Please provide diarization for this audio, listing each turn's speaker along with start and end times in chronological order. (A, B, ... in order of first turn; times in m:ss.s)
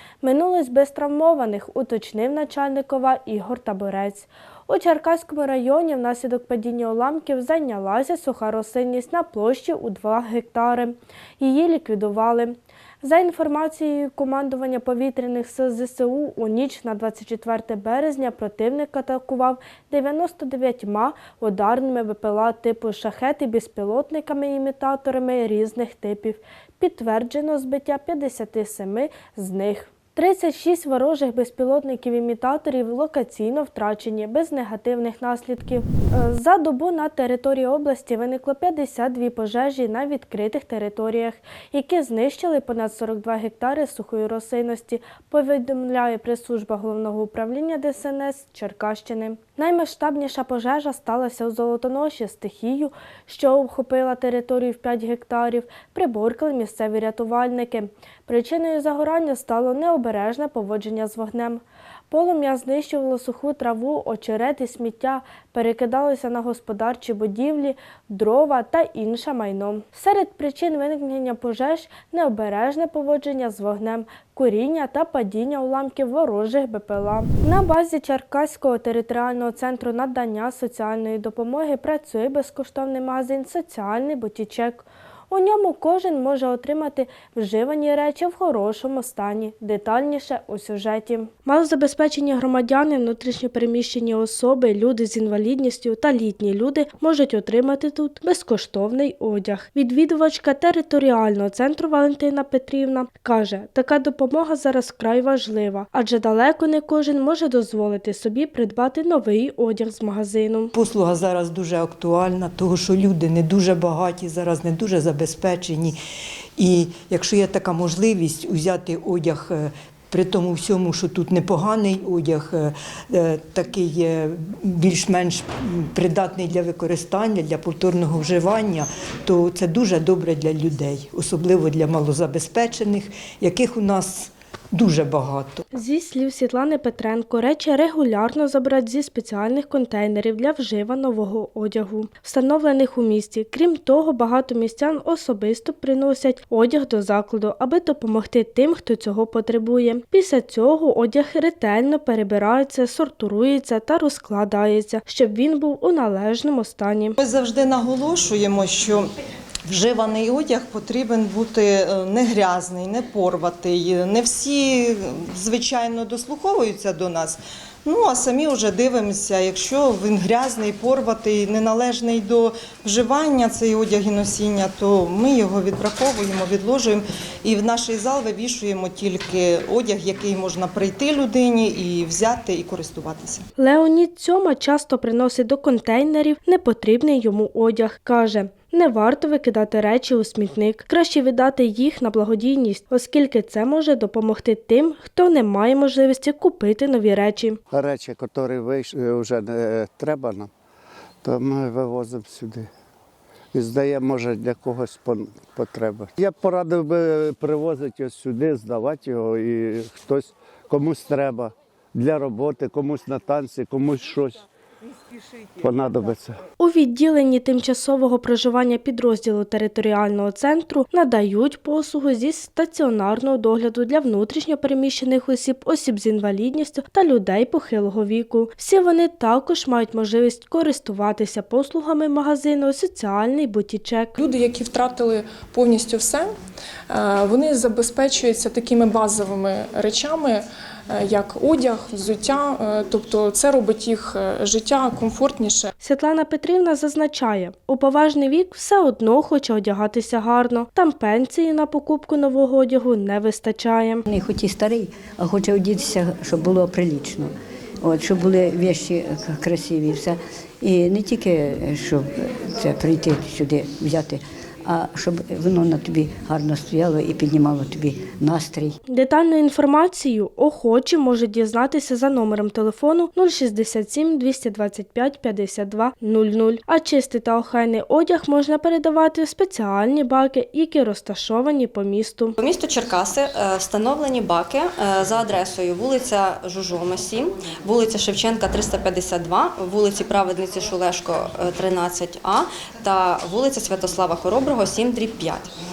0:00.2-1:50.7 A
1:50.7-1:56.0 B
1:56.6-2:15.6 B
2:15.7-2:37.2 A
2:37.2-2:39.1 C
2:39.6-3:03.4 C
3:03.6-3:17.6 A
3:17.7-3:20.5 D
3:21.2-3:22.7 D
3:23.5-3:34.4 D
3:35.6-3:36.4 D
3:36.6-3:54.1 A
3:54.2-3:56.3 E
3:56.9-4:05.7 E
4:05.8-4:14.0 A
4:14.1-4:28.8 F
4:28.9-4:42.4 A
4:42.4-4:55.5 G